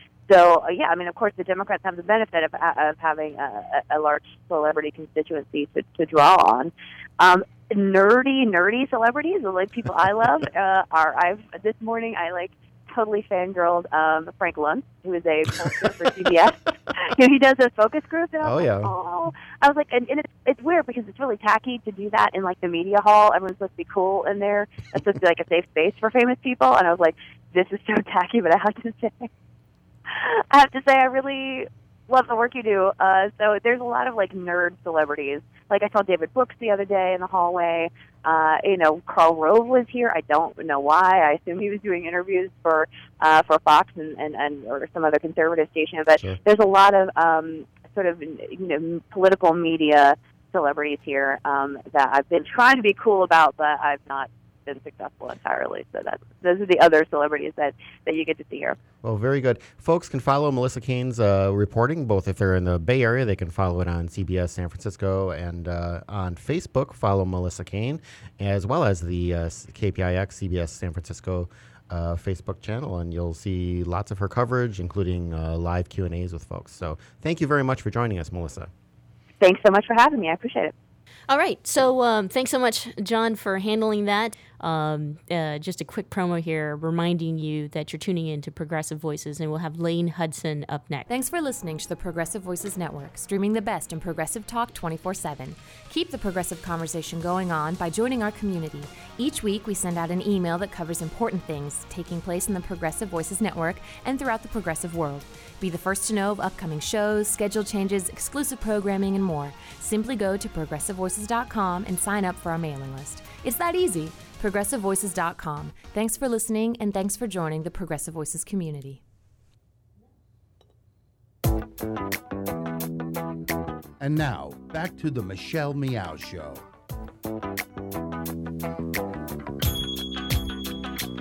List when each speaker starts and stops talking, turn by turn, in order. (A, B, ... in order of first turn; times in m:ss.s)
0:00.3-0:29.3 A
0:18.4-0:18.9 B
0:30.1-0:58.8 A
0:59.0-1:18.7 B
1:19.4-1:20.7 A
1:21.3-1:31.1 C
1:31.1-1:59.0 D
2:04.0-2:06.6 E